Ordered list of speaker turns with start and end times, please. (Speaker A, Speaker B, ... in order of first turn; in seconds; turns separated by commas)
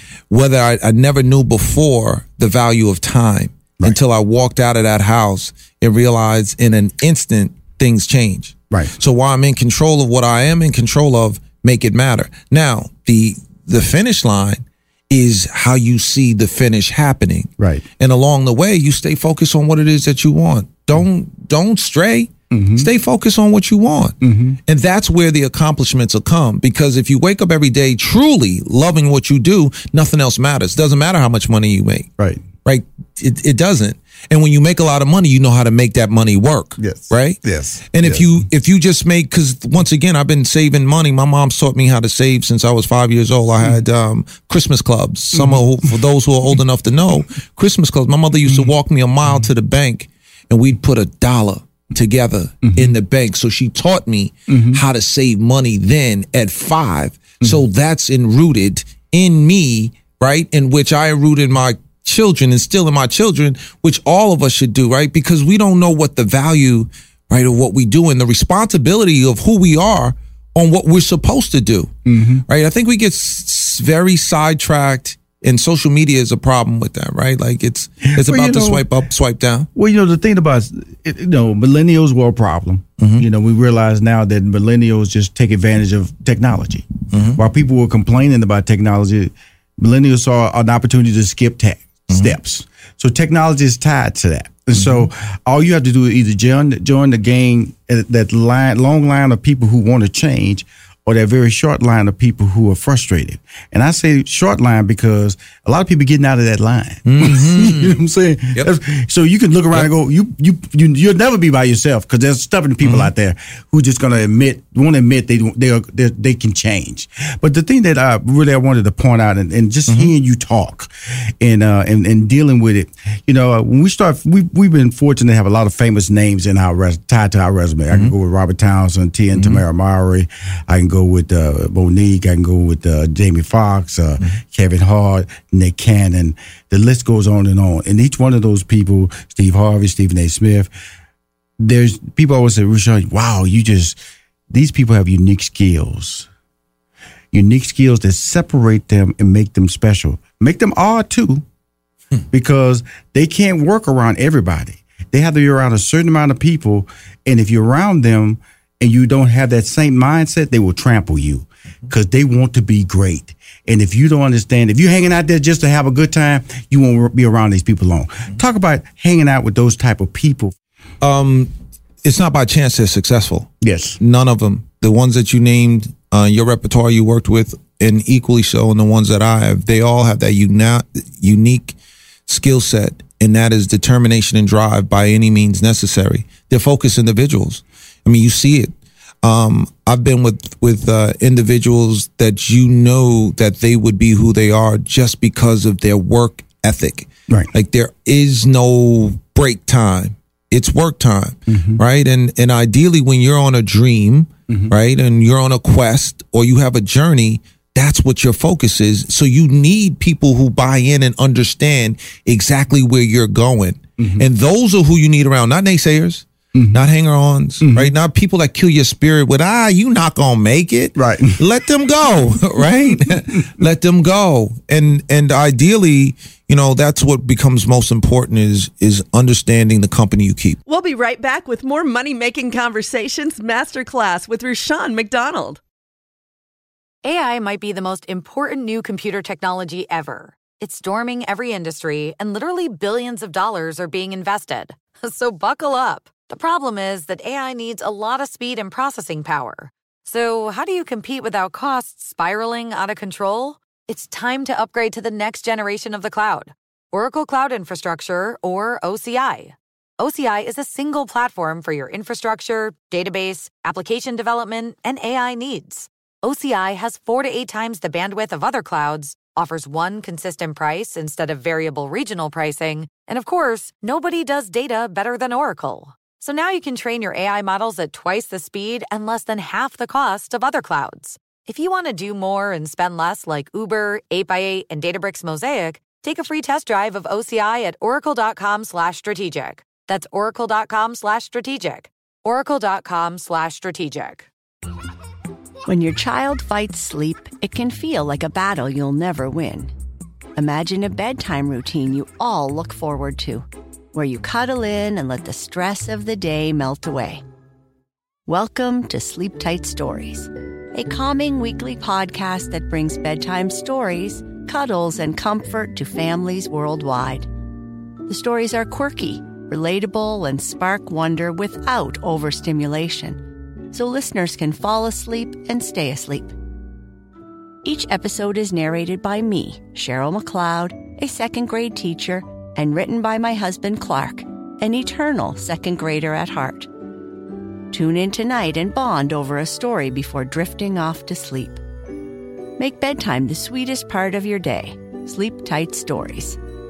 Speaker A: 0.3-32.1, Speaker B: 17.6-17.8, Speaker B: 22.5-22.9, Speaker B: 24.2-24.6, Speaker A: 32.6-71.9, Speaker B: 36.8-38.2, Speaker B: 45.3-45.6, Speaker B: 52.6-52.9, Speaker B: 54.5-54.8, Speaker B: 72.0-72.4, Speaker A: 72.5-79.7, Speaker B: 78.0-78.8, Speaker B: 79.7-140.7, Speaker A: 83.0-83.3, Speaker A: 87.1-87.4, Speaker A: 92.1-92.4, Speaker A: 94.7-95.1, Speaker A: 107.0-108.0, Speaker A: 112.8-113.1, Speaker A: 129.3-129.6, Speaker B: 141.6-144.0, Speaker B: 144.5-146.3, Speaker B: 147.3-151.4, Speaker B: 152.3-170.5, Speaker A: 171.0-171.5, Speaker A: 172.0-230.6, Speaker B: 173.6-174.0, Speaker B: 201.5-201.8, Speaker B: 204.5-204.7, Speaker B: 214.0-214.2, Speaker B: 216.5-216.8, Speaker B: 217.6-217.9, Speaker B: 220.9-221.3, Speaker C: 230.7-235.6, Speaker D: 237.0-294.3, Speaker E: 295.6-299.7, Speaker E: 300.4-307.2, Speaker E: 308.3-317.3, Speaker E: 318.1-323.2, Speaker E: 323.7-326.3, Speaker E: 327.6-336.7, Speaker E: 337.7-341.6, Speaker E: 342.6-346.4